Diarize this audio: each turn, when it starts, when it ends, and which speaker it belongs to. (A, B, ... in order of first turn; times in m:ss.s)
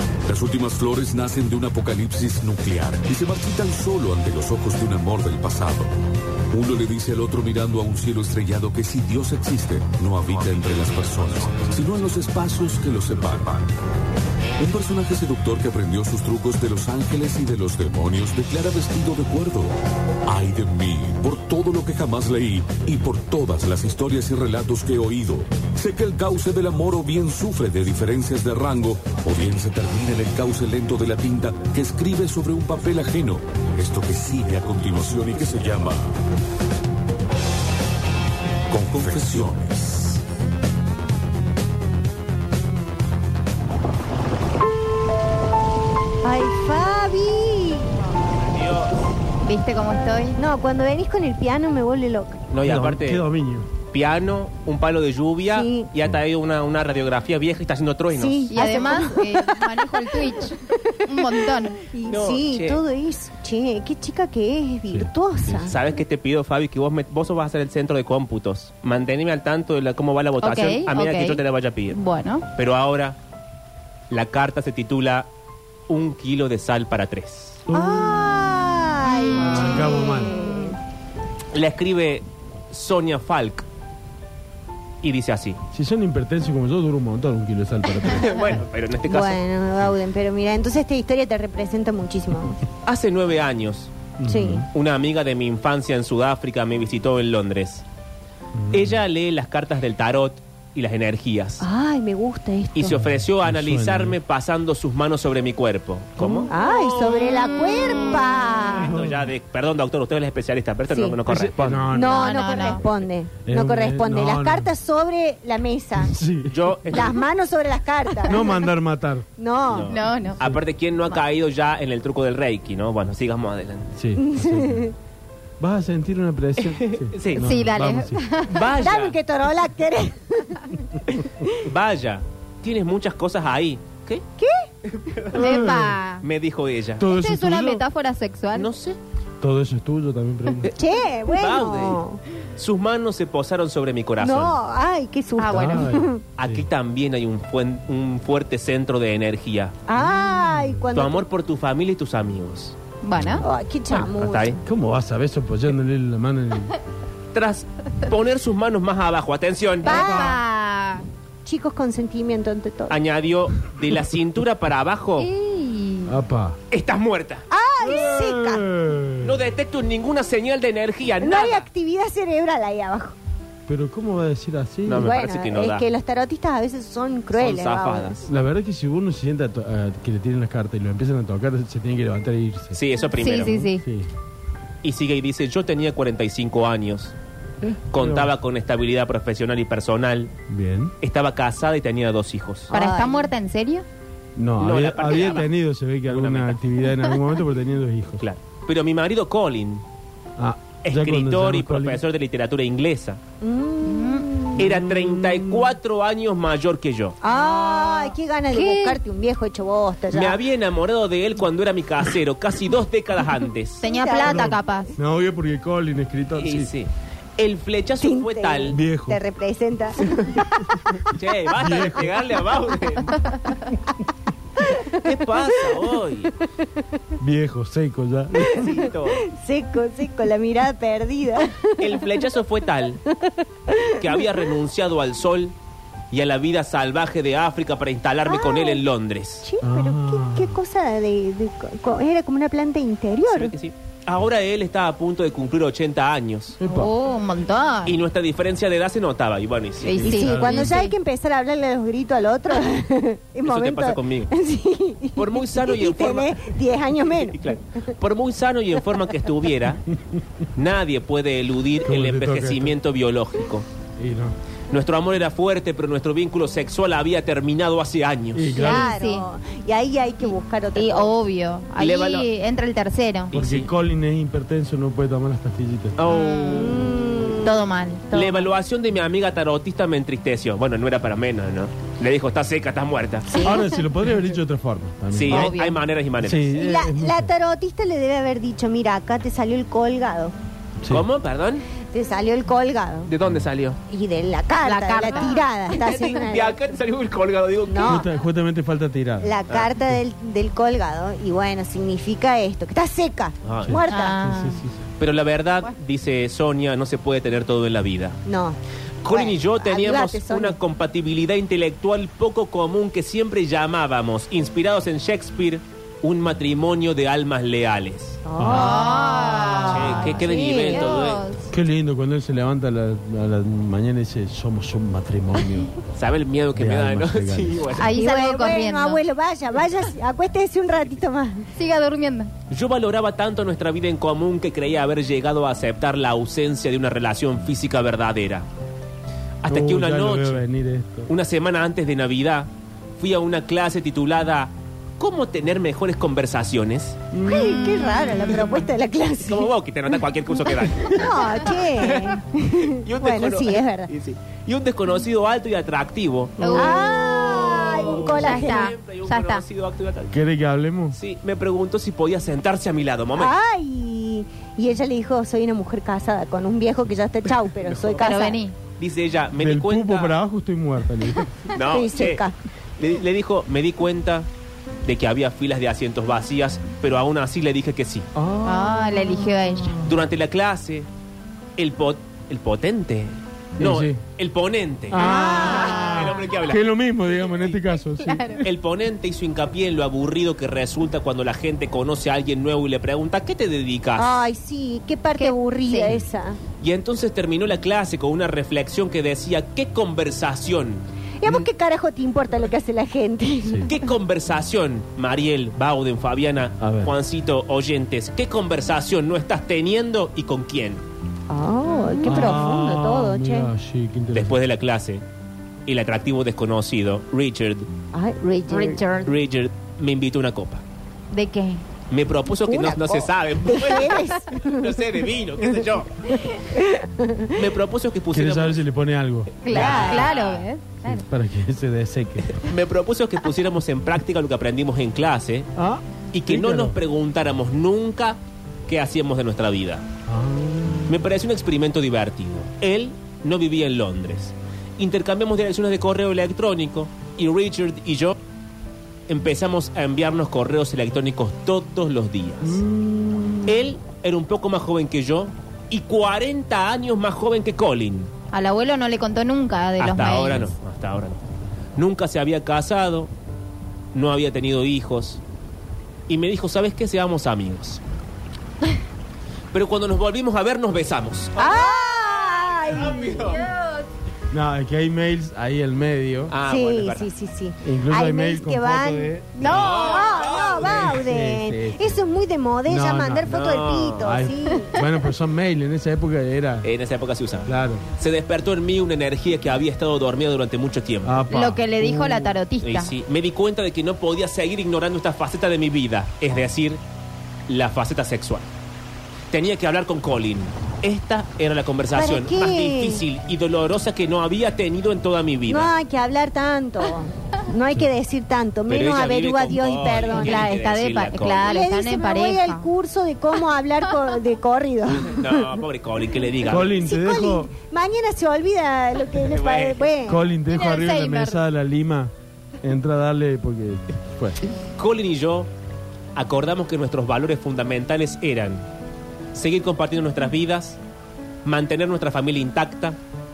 0:00.2-0:05.9 A
0:06.5-0:13.7 A
0:14.6-0:19.7 A
0:20.2-0:36.2 A
0:38.7-0:40.2 A
0:46.2-0:48.0 B
0:48.3-0:48.9 C
0:49.4-0:50.4 D
0:50.4-0:52.4 B
0:52.5-0:53.2 C
0:52.6-0:53.7 E
0:53.9-0:58.9 C
0:55.5-0:55.9 B
0:58.1-1:00.3 B
0:58.5-1:01.8 D
1:01.1-1:05.8 B
1:02.1-1:02.8 C
1:04.9-1:05.7 E
1:05.7-1:12.0 C
1:10.4-1:12.5 D
1:12.5-1:13.2 C
1:14.1-1:15.3 C
1:15.9-1:17.6 C
1:17.7-1:18.4 E
1:17.7-1:20.8 B
1:19.1-1:19.9 D
1:19.3-1:20.3 E
1:20.4-1:20.7 D
1:21.5-1:23.6 C
1:25.0-1:25.6 C
1:25.7-1:28.3 E
1:28.1-1:29.4 C
1:29.0-1:32.6 B
1:32.8-1:33.9 C
1:34.2-1:34.7 E
1:34.3-1:34.7 B
1:34.7-1:37.8 C
1:38.5-1:39.0 E
1:38.7-1:41.6 C
1:41.6-1:43.0 B
1:42.7-1:47.1 C
1:42.8-1:44.2 E
1:46.2-1:46.5 E
1:46.5-1:49.0 B
1:47.2-1:48.3 D
1:48.7-1:49.2 E
1:48.8-1:51.9 C
1:50.9-1:51.2 B
1:51.3-1:52.2 E
1:51.9-1:56.1 B
1:52.0-1:52.9 D
1:53.4-1:54.7 E
1:56.0-1:56.6 E
1:56.5-1:57.2 C
1:56.9-1:58.6 B
1:58.3-1:59.3 E
1:59.4-2:00.0 B
1:59.7-2:03.9 C
1:59.8-2:00.4 D
2:04.0-2:04.8 E
2:04.2-2:04.9 B
2:05.6-2:08.2 E
2:06.6-2:07.5 C
2:07.4-2:08.7 D
2:08.5-2:09.2 C
2:08.7-2:11.5 B
2:11.6-2:14.2 C
2:14.4-2:14.7 B
2:15.0-2:15.4 C
2:15.3-2:16.2 D
2:15.4-2:16.0 E
2:16.2-2:17.1 C
2:17.0-2:17.8 E
2:17.1-2:18.7 D
2:18.5-2:19.0 C
2:19.4-2:20.7 E
2:20.7-2:22.2 B
2:21.3-2:22.0 C
2:22.6-2:24.6 C
2:24.2-2:26.2 B
2:25.4-2:25.9 D
2:25.5-2:26.6 E
2:26.4-2:29.8 C
2:29.9-2:31.3 B
2:30.9-2:32.8 C
2:33.0-2:33.4 D
2:33.4-2:34.6 B
2:33.9-2:34.6 C
2:34.6-2:36.7 E
2:37.3-2:40.0 C
2:39.8-2:41.1 D
2:39.8-2:40.4 B
2:39.9-2:40.4 E
2:41.4-2:43.0 B
2:42.9-2:45.3 C
2:45.2-2:46.1 D
2:46.0-2:46.6 E
2:46.7-2:47.4 C
2:47.5-2:48.6 B
2:47.8-2:49.4 E
2:49.2-2:51.6 C
2:51.2-2:53.2 B
2:53.7-2:55.1 E
2:54.8-2:55.9 C
2:55.0-2:58.3 B
2:57.3-2:58.3 C
2:58.2-3:02.8 E
3:02.7-3:03.6 C
3:03.1-3:03.8 D
3:03.5-3:04.1 E
3:04.8-3:07.1 C
3:07.6-3:08.3 E
3:07.9-3:10.3 C
3:10.5-3:10.9 E
3:11.0-3:12.7 C
3:12.7-3:13.3 B
3:12.7-3:13.8 D
3:14.4-3:18.2 E
3:14.6-3:15.5 C
3:15.0-3:15.4 D
3:16.0-3:16.6 C
3:18.2-3:19.8 C
3:20.4-3:22.0 E
3:20.8-3:23.2 C
3:23.4-3:24.7 B
3:23.8-3:24.3 D
3:24.6-3:27.2 C
3:24.6-3:25.7 E
3:27.2-3:30.4 B
3:28.5-3:29.0 D
3:30.1-3:33.8 C
3:33.8-3:34.9 D
3:33.8-3:34.6 B
3:34.2-3:36.7 E
3:36.4-3:38.8 C
3:38.0-3:40.8 B
3:38.7-3:39.2 E
3:41.1-3:43.3 C
3:41.6-3:42.1 E
3:44.6-3:46.0 B
3:44.9-3:46.3 C
3:47.2-3:48.7 E
3:48.4-3:52.0 B
3:48.6-3:49.2 C
3:51.8-3:53.0 C
3:53.1-3:54.4 B
3:54.0-3:55.6 C
3:56.1-3:59.5 C
3:58.2-3:58.8 B
3:59.4-4:03.5 B
3:59.6-4:00.6 E
4:03.3-4:06.6 C
4:06.6-4:06.9 E
4:06.7-4:08.0 D
4:07.8-4:10.0 C
4:09.8-4:10.9 D
4:09.9-4:10.8 E
4:10.0-4:17.9 B
4:13.4-4:14.3 C
4:15.2-4:19.8 C
4:20.6-4:23.7 C
4:21.8-4:22.7 E
4:24.0-4:24.3 E
4:24.7-4:28.6 C
4:28.3-4:28.9 E
4:28.6-4:29.2 D
4:28.6-4:31.2 B
4:30.2-4:33.3 D
4:31.8-4:32.3 C
4:33.3-4:33.7 C
4:33.3-4:36.0 E
4:36.0-4:36.6 C
4:36.0-4:38.4 D
4:36.4-4:37.6 B
4:38.1-4:43.4 C
4:43.3-4:43.8 D
4:43.4-4:45.5 E
4:45.1-4:46.5 C
4:45.3-4:45.8 D
4:46.2-4:47.3 E
4:46.5-4:50.3 B
4:50.9-4:51.7 C
4:51.9-4:53.1 B
4:53.0-4:53.8 C
4:53.9-4:56.8 B
4:54.6-4:55.5 D
4:55.8-4:58.0 C
4:57.7-4:58.1 B
4:57.8-4:59.3 E
4:59.2-5:04.2 B
5:03.4-5:03.8 C
5:03.6-5:04.8 E
5:03.9-5:04.6 D
5:05.0-5:08.2 C
5:08.2-5:10.6 B
5:09.0-5:18.2 C
5:18.2-5:21.1 B
5:18.4-5:19.0 E
5:18.5-5:21.5 D
5:19.6-5:21.2 C
5:21.5-5:25.7 E
5:25.9-5:27.9 C
5:26.5-5:27.8 E
5:27.7-5:29.0 D
5:27.9-5:31.5 B
5:31.5-5:32.3 D
5:32.5-5:38.5 C
5:39.4-5:40.4 C
5:39.5-5:41.1 E
5:41.1-5:47.0 C
5:47.1-5:47.6 E
5:47.2-5:49.5 B
5:47.4-5:48.3 D
5:48.3-5:48.6 C
5:49.2-6:00.1 C
5:50.8-5:53.9 B
5:56.4-5:59.4 D
5:56.5-5:58.7 B
6:00.1-6:01.0 E
6:00.9-6:03.3 C
6:03.1-6:08.4 B
6:07.6-6:08.1 C
6:08.0-6:08.5 D
6:08.8-6:10.2 C
6:09.4-6:11.2 E
6:11.5-6:12.2 C
6:11.7-6:12.3 B
6:12.8-6:14.3 C
6:14.8-6:18.1 C
6:18.2-6:19.8 E
6:18.4-6:19.8 D
6:19.8-6:20.9 C
6:21.6-6:27.6 C
6:23.6-6:24.0 E
6:24.9-6:28.4 E
6:25.0-6:25.8 B
6:25.5-6:26.2 D
6:28.0-6:28.4 D
6:28.4-6:34.2 C
6:33.9-6:36.4 B
6:35.2-6:36.0 D
6:36.6-6:41.5 C
6:41.2-6:43.7 B
6:43.4-6:43.7 E
6:43.7-6:50.8 C
6:46.6-6:46.9 E
6:51.3-6:53.5 B
6:51.7-6:52.2 D
6:52.0-6:54.4 E
6:54.1-6:55.0 C
6:55.7-6:57.7 C
6:57.9-6:58.8 B
6:58.5-6:59.1 D
6:59.0-7:00.6 C
7:01.1-7:01.6 D
7:01.9-7:05.9 C
7:02.3-7:04.8 B
7:06.1-7:07.3 B
7:07.3-7:08.6 C
7:08.1-7:09.9 E
7:09.4-7:11.0 D
7:09.4-7:10.5 C
7:09.5-7:10.1 B
7:10.8-7:12.4 E
7:12.3-7:15.5 C
7:15.5-7:16.8 E
7:16.1-7:19.8 C
7:20.1-7:21.0 E
7:20.9-7:28.2 C
7:29.1-7:32.6 C
7:32.4-7:33.7 E
7:33.4-7:38.1 C
7:38.3-7:40.5 D
7:39.8-7:41.2 C
7:41.8-7:43.1 C
7:43.9-7:45.2 C
7:46.1-7:47.8 C
7:49.5-7:53.5 C
7:51.4-7:53.2 B
7:53.0-7:53.9 D
7:54.3-7:56.3 E
7:56.3-7:57.1 C
7:56.5-8:04.7 B
7:57.6-7:59.4 E
7:59.3-8:00.1 D
7:59.4-8:01.0 C
8:00.4-8:02.0 E
8:02.6-8:03.3 E
8:03.3-8:04.1 C
8:04.0-8:06.7 E
8:06.6-8:11.2 C
8:07.4-8:07.8 E
8:11.0-8:12.3 E
8:11.3-8:12.9 D
8:12.6-8:16.8 C
8:17.5-8:18.5 C
8:19.3-8:25.7 C
8:21.9-8:23.0 B
8:25.5-8:30.6 B
8:28.7-8:31.6 C
8:30.0-8:32.7 D
8:31.4-8:35.5 B
8:35.0-8:36.8 C
8:36.5-8:37.5 E
8:36.5-8:40.2 B
8:39.3-8:40.0 C
8:40.1-8:44.4 E
8:40.4-8:41.4 D
8:44.8-8:45.5 C
8:46.1-8:48.6 C
8:49.3-8:50.8 C
8:51.4-8:53.0 C